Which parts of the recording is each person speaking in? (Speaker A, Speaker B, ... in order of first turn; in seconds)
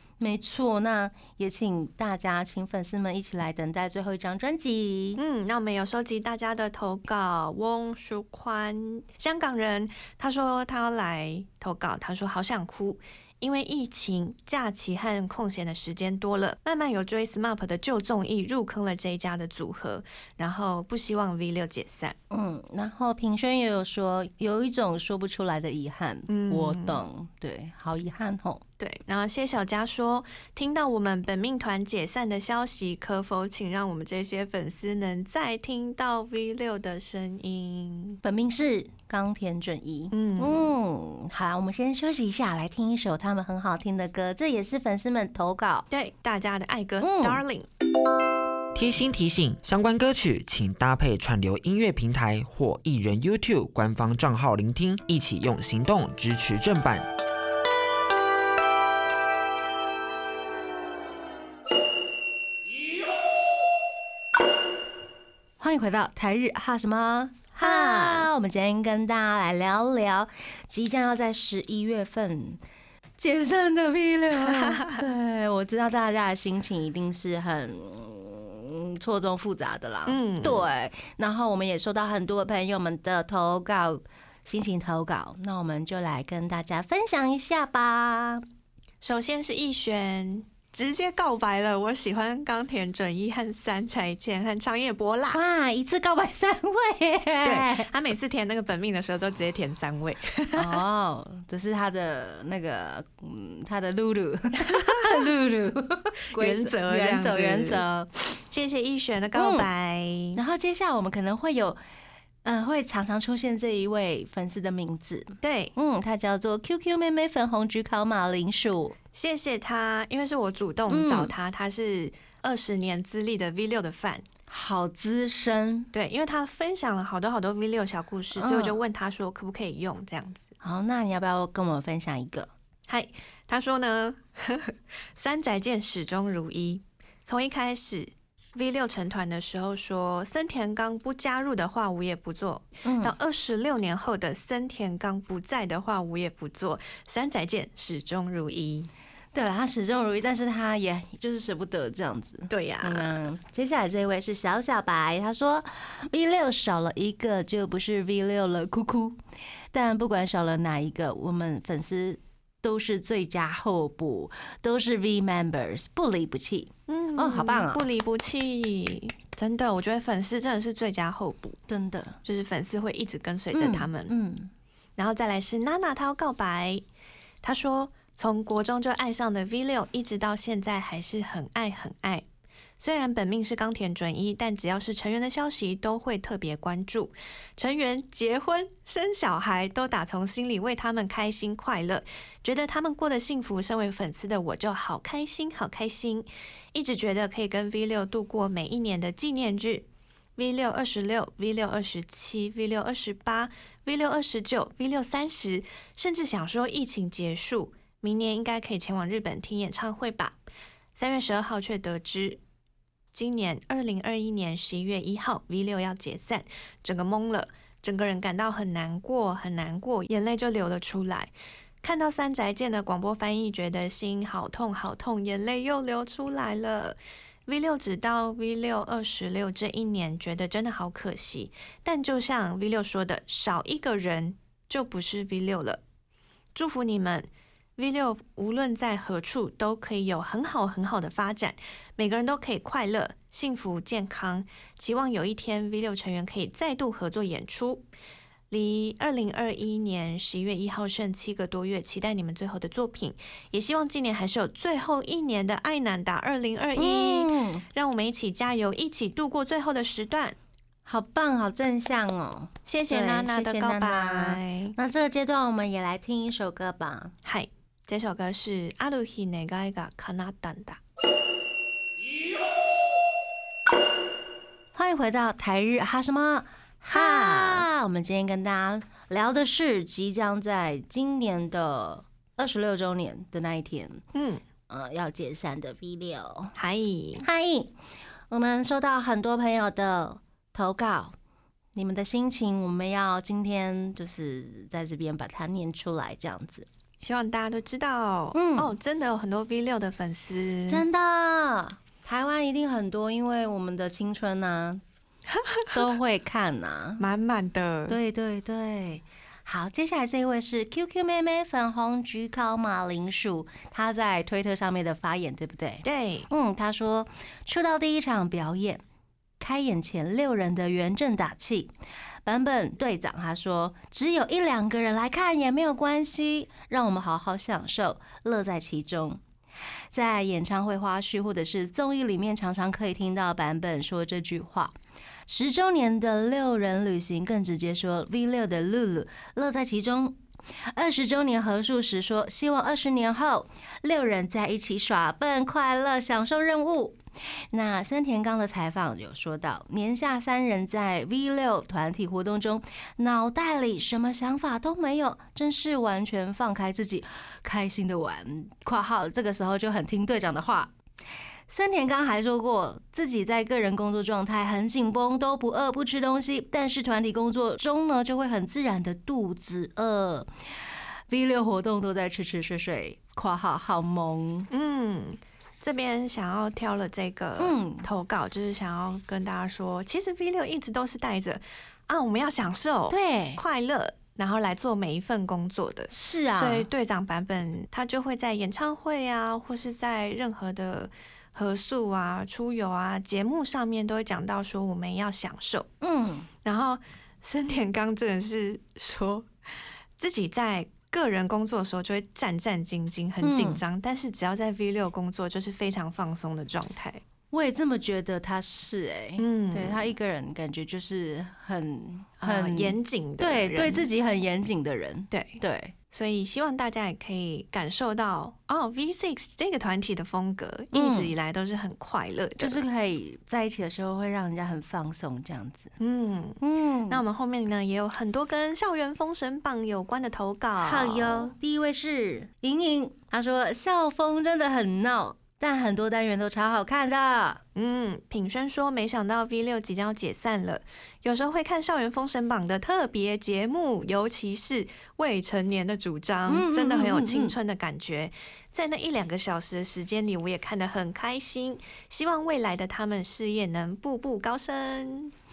Speaker A: 0.2-5.2, 22.3-28.6, 38.2-45.9, 47.0-47.4, 65.6-72.6, 73.2-88.4, 95.3-97.9, 100.5-108.1, 109.3-109.7, 110.3-111.8, 112.4-119.0, 120.9-121.3, 124.5-125.9, 128.3-128.8, 130.6-132.5, 142.8-143.1, 149.3-159.2, 159.7-167.8, 171.7-172.2, 173.5-174.5, 256.8-257.6, 260.9-267.1, 274.8-284.0, 284.7-286.5, 287.2-287.7, 288.3-291.1, 291.7-296.7, 298.3-298.7, 300.7-304.8, 305.7-307.0, 307.9-318.8, 319.4-321.7, 322.2-329.2, 329.9-334.7, 335.3-340.2, 340.7-347.0, 347.5-360.7, 361.5-370.3, 371.1-374.5, 377.4-377.9, 382.9-383.4, 385.9-386.7, 395.8-396.3, 403.2-403.6, 407.3-415.7, 420.7-421.1, 422.4-425.7, 426.4-427.0, 430.6-437.4, 446.3-447.3
Speaker B: 5.2-22.1, 26.3-27.0, 28.8-38.2, 40.1-40.7, 45.9-47.7, 67.5-68.3, 74.4-75.0, 80.0-80.7, 89.0-95.4, 97.4-100.8, 104.7-105.2, 106.3-107.8, 108.5-110.4, 115.4-115.7, 119.1-124.2, 125.9-130.5, 132.9-148.9, 152.5-153.1, 166.9-171.6, 172.2-174.1, 175.0-176.8, 177.4-182.2, 182.8-210.4, 210.9-212.4, 213.1-235.8, 236.5-247.8, 248.5-260.4, 262.6-264.7, 267.2-270.8, 276.9-277.6, 284.1-284.4, 286.6-287.2, 297.0-300.8, 305.3-305.8, 307.0-308.0, 315.8-316.3, 374.5-395.7, 396.4-399.3, 400.0-407.0, 409.2-409.9, 412.2-413.9, 415.1-415.4, 415.9-422.6, 425.8-431.3, 437.5-455.1
Speaker C: 48.7-57.0